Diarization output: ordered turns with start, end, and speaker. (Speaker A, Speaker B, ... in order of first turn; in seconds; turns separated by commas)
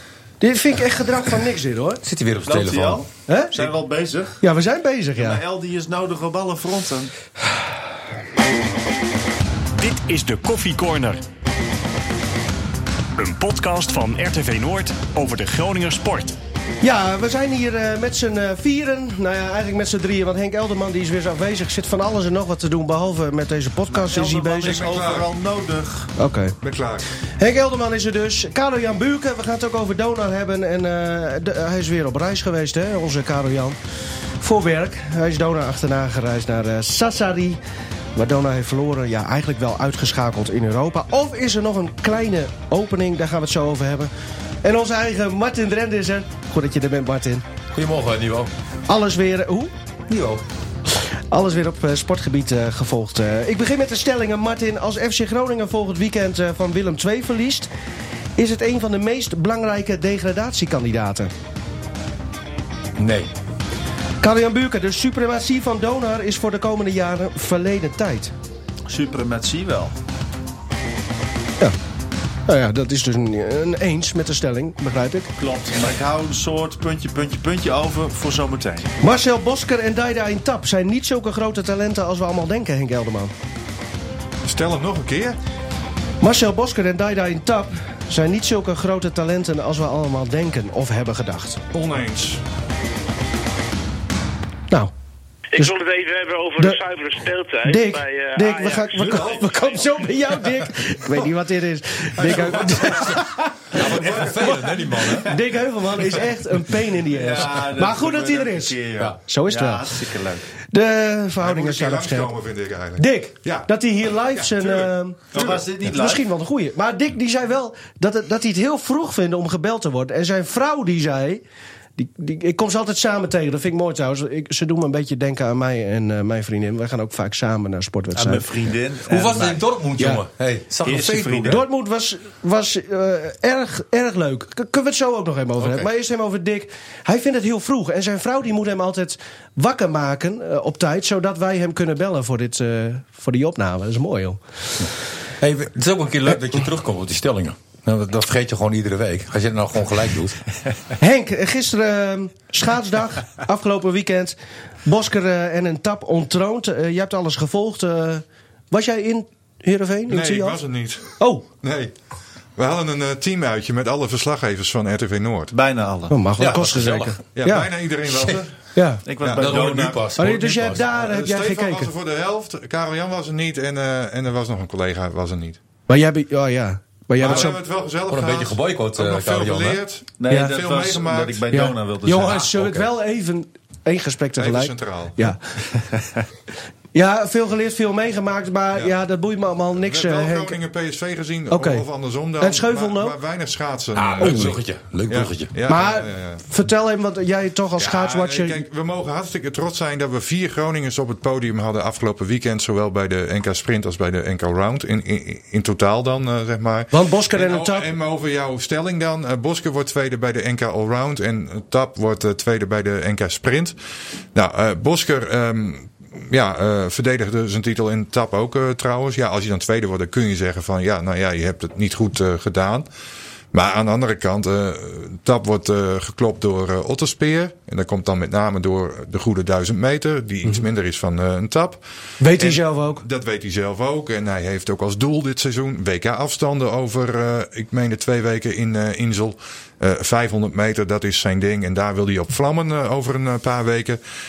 Speaker A: 0.4-2.0, Speaker B: 2.0-3.0, Speaker C: 2.5-4.4, Speaker A: 3.3-3.7, Speaker A: 4.4-5.4, Speaker C: 5.2-7.1, Speaker D: 9.8-11.2, Speaker D: 13.2-16.4, Speaker A: 16.8-24.9, Speaker C: 23.9-26.1, Speaker E: 24.7-25.3, Speaker A: 26.2-26.6, Speaker E: 26.6-27.1, Speaker A: 27.4-33.8, Speaker A: 34.4-37.6, Speaker A: 38.1-44.1, Speaker A: 44.6-47.5, Speaker B: 47.7-48.5, Speaker A: 48.9-49.7, Speaker B: 50.1-50.4, Speaker A: 51.3-57.7, Speaker A: 58.4-61.3, Speaker B: 63.0-63.3, Speaker A: 64.2-68.3, Speaker C: 68.9-69.9, Speaker A: 72.5-75.3, Speaker C: 75.4-78.9, Speaker A: 79.0-83.3, Speaker E: 84.4-85.4, Speaker A: 86.2-91.6, Speaker E: 91.7-92.4, Speaker F: 95.5-99.3, Speaker A: 97.6-103.4, Speaker E: 99.0-99.6, Speaker E: 102.2-102.9, Speaker B: 103.7-105.3, Speaker E: 103.8-104.7, Speaker A: 105.2-109.9, Speaker C: 107.1-110.4, Speaker A: 110.7-112.3, Speaker E: 111.4-113.7, Speaker A: 113.0-121.4, Speaker E: 114.3-115.7, Speaker C: 115.3-116.2, Speaker A: 122.0-128.5, Speaker C: 128.1-130.2, Speaker B: 129.1-131.6, Speaker C: 130.8-131.6, Speaker A: 131.5-144.4, Speaker B: 135.6-135.9, Speaker B: 145.4-150.4, Speaker A: 151.0-160.6, Speaker E: 160.1-161.9, Speaker A: 161.2-161.5, Speaker E: 162.6-165.5, Speaker C: 165.5-166.2, Speaker A: 166.1-167.7, Speaker B: 166.4-167.2, Speaker E: 167.3-168.6, Speaker A: 168.8-169.0, Speaker C: 169.1-170.2, Speaker E: 169.2-169.7, Speaker B: 169.3-170.8, Speaker A: 170.2-171.9, Speaker E: 170.9-175.6, Speaker A: 175.9-177.6, Speaker E: 177.2-181.4, Speaker B: 178.1-179.8, Speaker C: 180.2-182.6, Speaker A: 181.5-185.4, Speaker B: 182.5-182.9, Speaker E: 184.4-185.3, Speaker A: 186.9-190.6, Speaker E: 189.8-196.4, Speaker A: 191.5-191.8, Speaker A: 192.4-193.2, Speaker B: 193.9-195.5, Speaker A: 195.7-198.7, Speaker E: 197.8-213.8, Speaker A: 206.9-207.9, Speaker E: 214.3-222.9, Speaker E: 223.5-231.8, Speaker A: 232.2-233.0, Speaker E: 232.4-244.0